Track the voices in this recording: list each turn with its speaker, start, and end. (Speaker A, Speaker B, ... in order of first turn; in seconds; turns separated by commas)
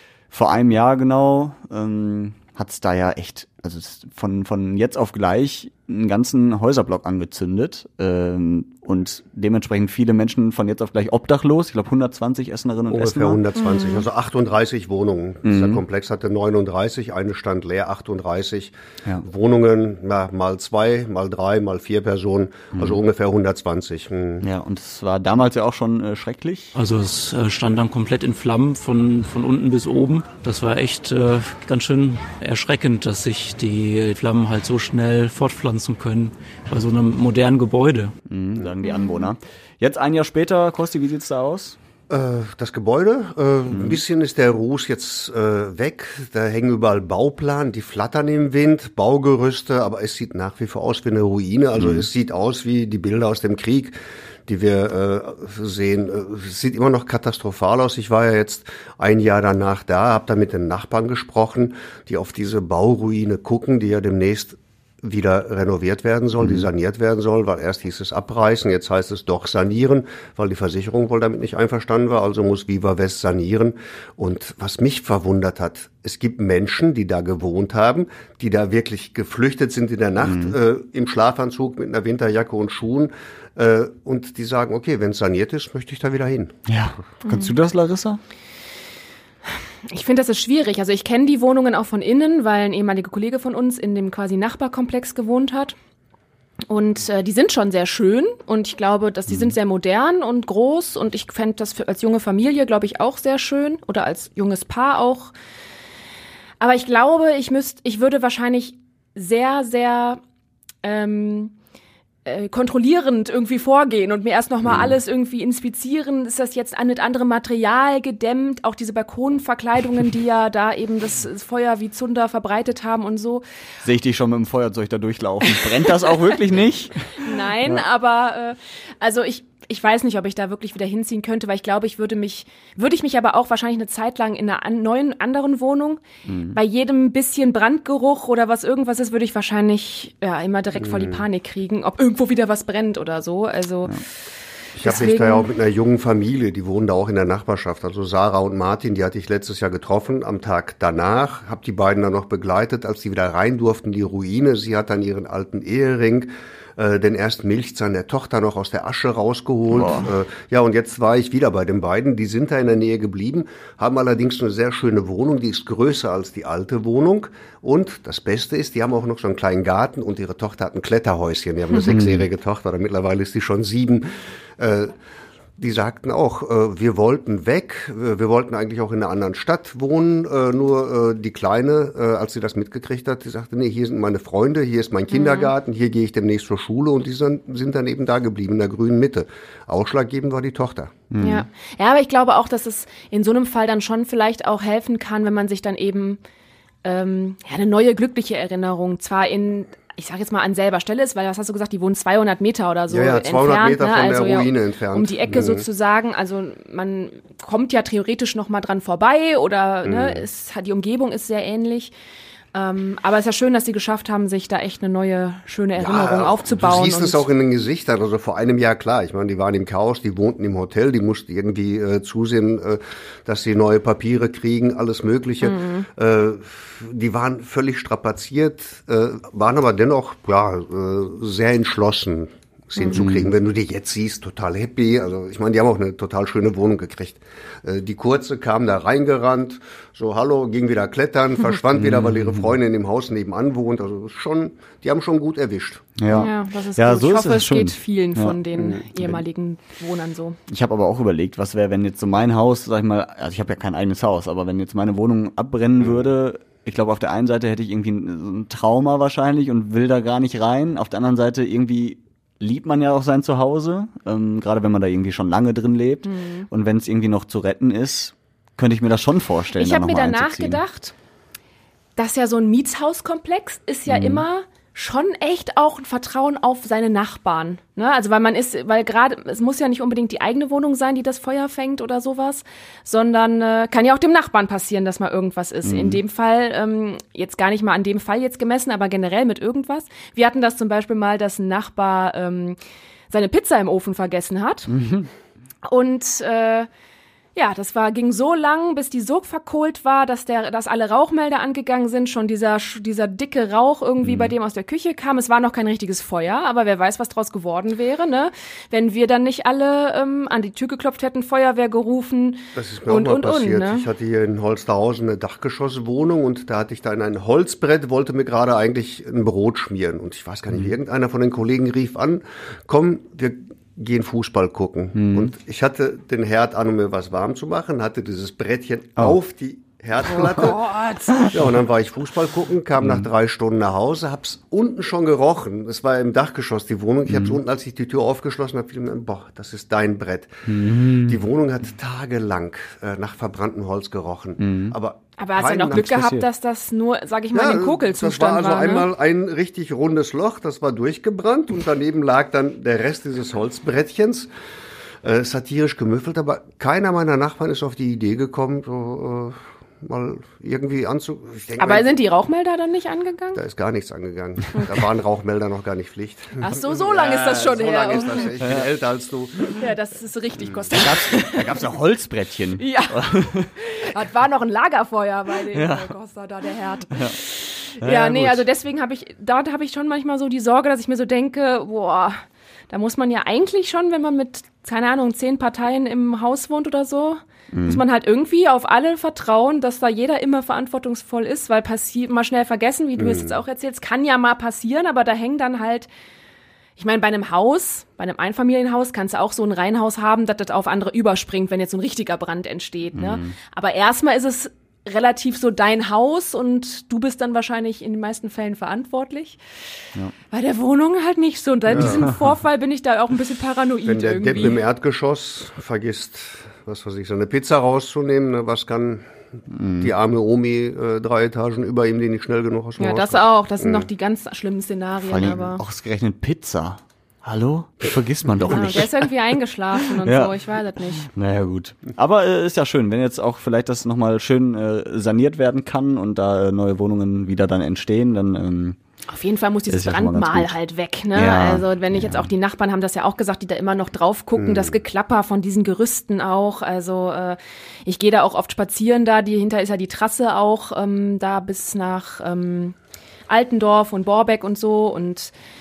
Speaker A: 0.3-13.4, Speaker B: 12.9-24.4, Speaker C: 13.6-14.0, Speaker A: 15.4-15.8, Speaker A: 24.4-26.7, Speaker D: 26.7-38.1, Speaker A: 38.3-41.8, Speaker C: 38.8-39.3, Speaker B: 42.1-86.6, Speaker A: 43.7-44.0, Speaker A: 51.8-52.0, Speaker A: 80.2-80.5, Speaker A: 86.7-88.2, Speaker C: 87.2-87.5, Speaker C: 89.9-95.7, Speaker C: 96.7-105.3, Speaker C: 106.6-110.2, Speaker C: 110.8-111.5, Speaker C: 112.2-123.4, Speaker A: 123.8-127.8, Speaker C: 127.2-143.9, Speaker A: 136.3-136.6, Speaker B: 140.8-141.2, Speaker B: 144.8-174.9, Speaker C: 144.8-145.5, Speaker A: 159.7-160.1, Speaker A: 171.9-172.3, Speaker B: 175.6-190.9, Speaker C: 185.1-185.5, Speaker A: 191.1-191.4, Speaker C: 191.2-196.2, Speaker C: 196.8-211.9, Speaker B: 202.9-205.6, Speaker B: 209.8-210.2, Speaker C: 212.5-217.2, Speaker B: 215.8-246.0, Speaker C: 225.4-225.9, Speaker A: 232.9-233.3, Speaker A: 241.8-242.5, Speaker A: 246.0-248.4, Speaker C: 246.1-250.4, Speaker B: 248.5-249.2, Speaker A: 250.5-270.6, Speaker C: 266.0-266.5, Speaker C: 269.5-270.9, Speaker C: 272.0-292.6, Speaker A: 273.9-274.2, Speaker A: 285.6-286.0, Speaker C: 293.1-294.7, Speaker A: 294.7-295.1, Speaker C: 295.6-296.7, Speaker C: 297.3-313.9, Speaker A: 304.0-304.3, Speaker B: 312.5-330.7, Speaker A: 324.9-325.3, Speaker C: 330.6-331.1, Speaker B: 331.3-346.2, Speaker A: 332.8-333.1, Speaker A: 337.1-337.4, Speaker A: 340.5-341.2, Speaker A: 344.4-344.8, Speaker C: 345.2-348.9, Speaker A: 345.7-346.1, Speaker B: 347.3-354.3, Speaker B: 355.0-361.9, Speaker C: 361.6-363.4, Speaker B: 363.3-369.6, Speaker C: 366.4-368.3, Speaker A: 368.4-368.7, Speaker C: 369.6-371.6, Speaker A: 370.7-373.5, Speaker C: 372.6-373.1, Speaker C: 373.6-395.9, Speaker A: 375.5-375.9, Speaker A: 376.9-377.2, Speaker A: 377.8-378.4, Speaker A: 387.5-387.8, Speaker B: 393.0-393.4, Speaker C: 396.8-409.4, Speaker A: 402.9-403.3, Speaker C: 410.3-414.6, Speaker B: 411.7-412.0, Speaker A: 411.7-412.0, Speaker B: 413.8-419.1, Speaker A: 419.5-419.9, Speaker B: 419.8-423.9, Speaker C: 422.8-425.6, Speaker A: 425.0-429.1, Speaker C: 428.5-431.1, Speaker A: 430.0-430.4, Speaker A: 431.0-438.8, Speaker C: 439.1-452.8, Speaker A: 439.7-440.5, Speaker A: 441.1-442.3, Speaker B: 444.4-444.8, Speaker C: 453.3-455.3